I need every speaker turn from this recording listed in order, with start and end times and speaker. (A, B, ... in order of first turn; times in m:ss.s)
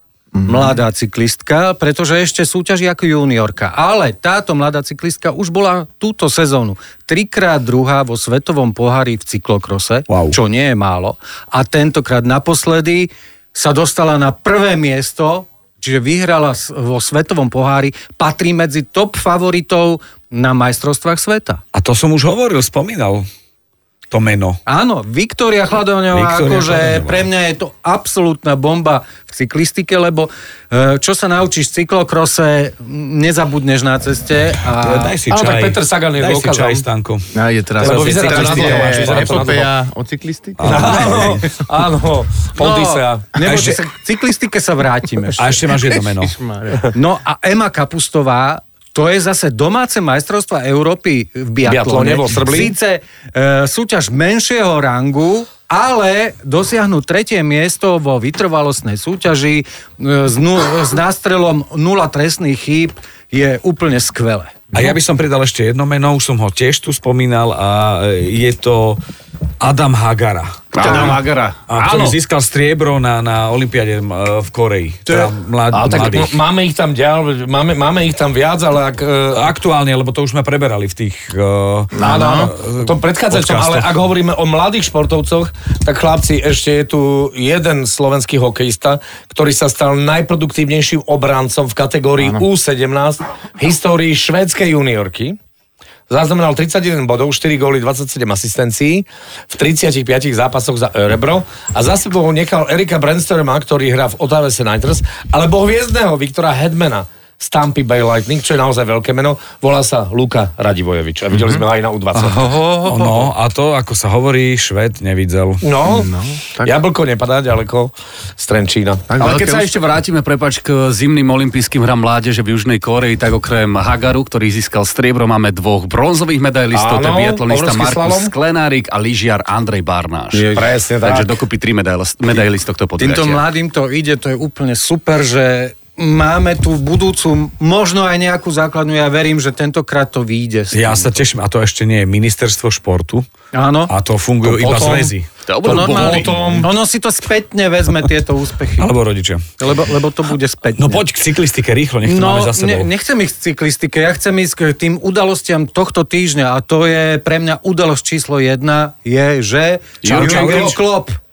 0:00.3-0:00.7 A
0:00.4-0:21.6 B
0:10.1-0:10.4 C
0:21.7-0:23.3 C
0:24.1-0:24.6 C
0:24.7-0:35.2 B
0:26.1-0:27.3 C
0:34.8-0:37.3 C
0:35.3-0:36.8 D
0:37.3-0:41.5 A
0:37.8-0:39.6 C
0:37.8-0:39.7 D
0:40.6-0:41.4 C
0:40.6-0:43.2 D
0:42.6-0:45.6 B
0:43.4-0:43.8 C
0:45.4-0:46.4 C
0:45.8-0:46.9 A
0:46.9-1:04.6 B
0:51.6-0:52.7 D
1:04.7-1:09.0 C
1:09.6-1:16.4 C
1:10.7-1:11.6 E
1:10.9-1:11.1 B
1:11.8-1:12.1 D
1:15.7-1:19.5 D
1:19.3-1:23.9 C
1:21.9-1:22.5 A
1:22.0-1:35.4 D
1:32.2-1:32.4 A
1:36.1-1:52.5 D
1:52.2-1:55.6 C
1:52.4-1:53.3 B
1:55.6-1:59.1 D
1:55.8-1:56.8 A
1:59.1-1:59.7 A
1:59.2-2:13.4 E
2:06.7-2:08.3 D
2:10.3-2:11.4 D
2:13.0-2:21.2 B
2:20.7-2:23.3 C
2:23.5-2:23.9 B
2:23.9-2:25.3 C
2:24.4-2:25.1 D
2:24.6-2:25.0 B
2:25.4-2:26.3 E
2:25.6-2:28.9 B
2:25.7-2:26.6 D
2:26.1-2:26.7 C
2:28.8-2:29.4 C
2:29.6-2:31.0 B
2:30.8-2:32.9 C
2:32.0-2:41.2 B
2:40.0-2:40.7 E
2:40.1-2:40.8 C
2:40.2-2:40.7 D